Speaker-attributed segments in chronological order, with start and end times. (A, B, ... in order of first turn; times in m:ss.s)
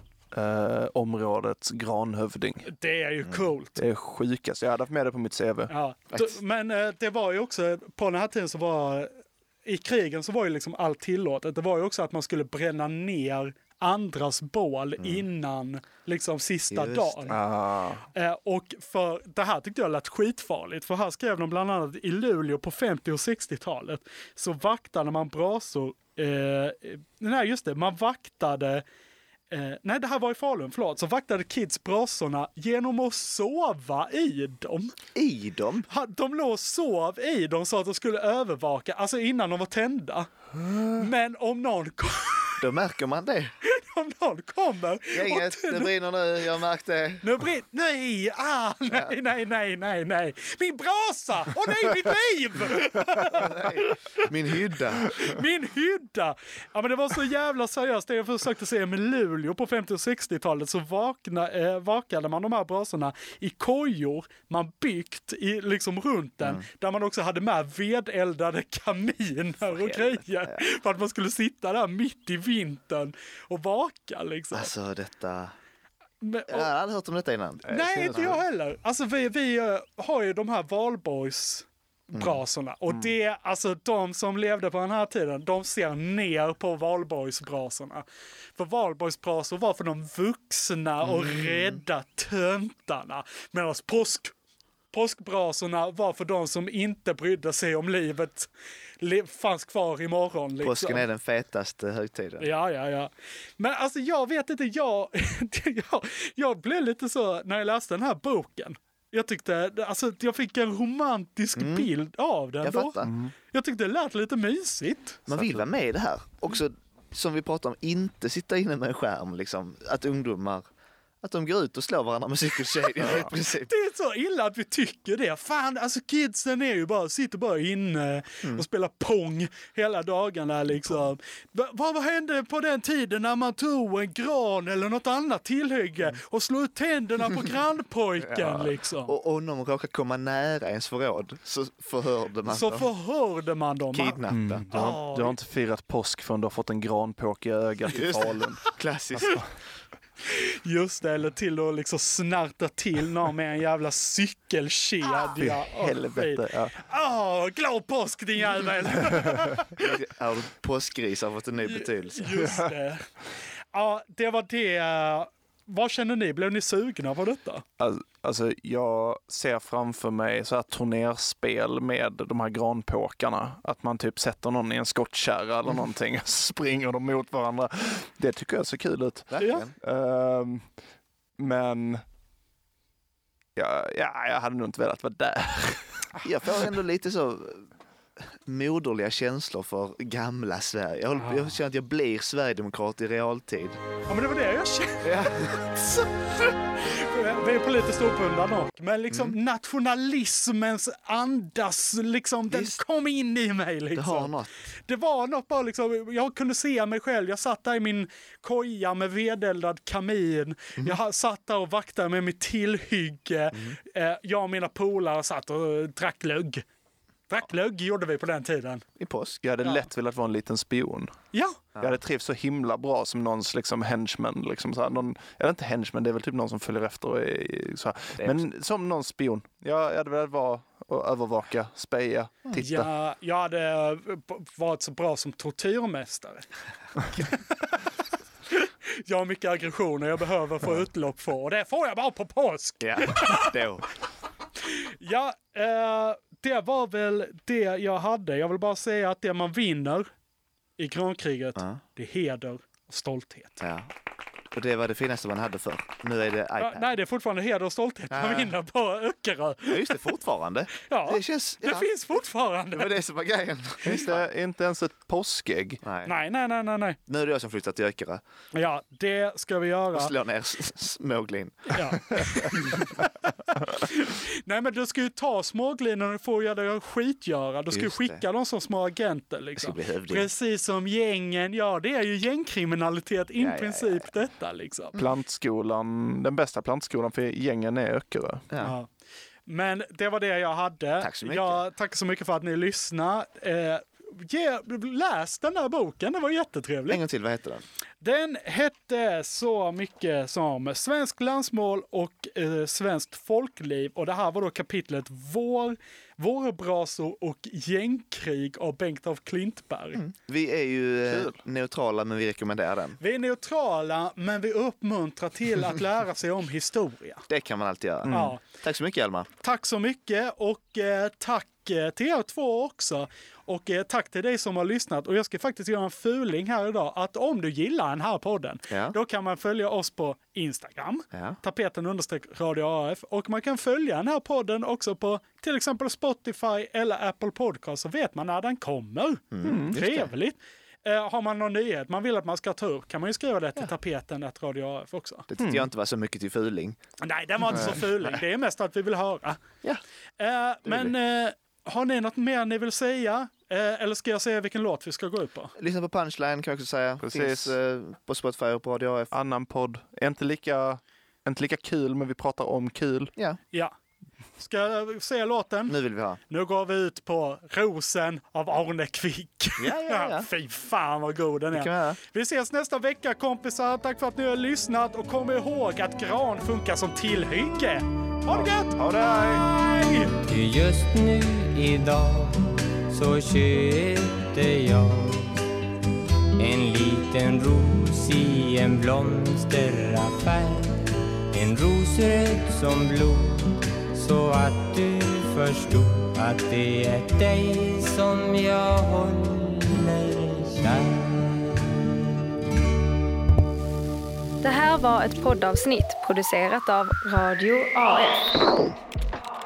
0:00.3-0:02.7 A
0:02.6-0:03.8 B
0:03.8-0:05.7 A
0:05.7-0:09.1 B
0:09.6-0:17.4 B
0:15.0-0:15.2 C
0:16.7-0:17.4 C
0:17.3-0:18.0 A
0:18.1-0:28.8 B
0:29.5-0:35.0 B
0:35.1-0:35.9 C
0:35.9-0:42.6 B
0:42.6-0:43.5 C
0:43.6-0:45.9 B
0:45.1-0:47.2 C
0:47.2-0:54.2 B
0:53.3-0:55.4 C
0:55.0-1:14.7 B
1:09.6-1:10.6 C
1:14.5-1:15.5 C
1:16.2-1:16.7 B
1:16.5-1:18.4 C
1:17.6-1:18.4 A
1:17.7-1:28.0 B
1:22.1-1:22.4 C
1:28.6-1:34.3 B
1:31.0-1:31.8 C
1:34.9-1:38.5 B
1:39.0-1:41.0 B
1:40.6-1:42.5 C
1:42.4-1:53.0 B
1:51.6-1:51.9 C
1:52.6-1:53.1 C
1:53.0-1:53.3 A
1:53.5-1:55.2 B
1:55.3-2:00.6 C
1:55.3-1:55.6 A
2:01.2-2:03.7 C
2:03.0-2:03.3 A
2:03.7-2:19.1 B
2:18.2-2:22.9 C
2:22.5-2:24.2 B
2:23.9-2:24.6 C
2:24.3-2:28.6 A
2:24.7-2:25.4 B
2:27.9-2:29.4 C
2:29.2-2:29.4 A
2:30.2-2:39.9 B
2:35.3-2:36.7 A
2:39.8-2:42.3 C
2:41.7-2:43.1 B
2:43.7-2:47.6 B
2:47.8-3:00.7 A
2:59.3-2:59.7 C
2:59.4-2:59.6 B
3:01.4-3:02.0 A
3:03.6-3:06.0 A
3:06.2-3:07.7 C
3:08.4-3:13.8 C
3:11.2-3:11.5 B
3:14.1-3:24.3 B
3:15.0-3:15.5 C
3:22.5-3:22.8 C
3:23.9-3:24.5 C
3:24.9-3:36.6 B
3:33.5-3:33.8 C
3:37.3-3:38.8 B
3:39.0-3:39.4 C
3:39.4-3:41.1 A
3:41.3-3:41.6 B
3:41.8-3:52.9 A
3:52.6-3:56.5 B
3:58.5-4:03.6 B
4:02.8-4:03.9 C
4:04.7-4:10.1 B
4:10.8-4:13.6 B
4:13.6-4:13.9 C
4:14.5-4:16.9 C
4:16.6-4:20.0 B
4:18.1-4:18.5 C
4:19.7-4:21.9 C
4:20.8-4:23.0 B
4:22.7-4:24.2 C
4:23.9-4:25.8 A
4:25.8-4:26.1 C
4:26.0-4:27.0 B
4:27.1-4:28.2 C
4:28.5-4:30.1 B
4:29.9-4:32.9 C
4:31.7-4:32.8 B
4:33.5-4:44.9 B
4:37.7-4:38.2 C
4:39.6-4:40.3 C
4:43.4-4:44.1 C
4:45.0-4:48.4 A
4:48.5-4:48.7 C
4:48.6-4:48.9 B
4:49.5-4:57.0 B
4:51.0-4:51.6 C
4:56.9-4:57.6 C
4:58.0-5:10.0 B
5:09.9-5:13.0 C
5:11.1-5:11.4 A
5:13.0-5:17.2 B
5:17.3-5:19.3 C
5:18.0-5:18.4 A
5:18.1-5:18.4 B
5:19.4-5:45.3 B
5:28.7-5:29.0 C
5:31.1-5:31.4 C
5:39.3-5:40.1 C
5:39.4-5:39.8 A
5:45.3-5:46.8 C
5:45.4-5:45.7 A
5:47.0-5:49.4 B
5:47.4-5:47.9 C
5:50.2-5:55.5 B
5:50.6-5:50.9 C
5:55.6-5:59.1 C
5:57.0-5:57.5 A
5:59.1-6:03.1 A
6:04.4-6:05.7 B
6:05.7-6:06.2 C
6:06.3-6:20.1 B
6:09.6-6:10.3 C
6:11.5-6:12.0 C
6:18.3-6:19.4 A
6:20.3-6:25.4 D
6:26.4-6:41.8 D
6:44.4-6:48.7 E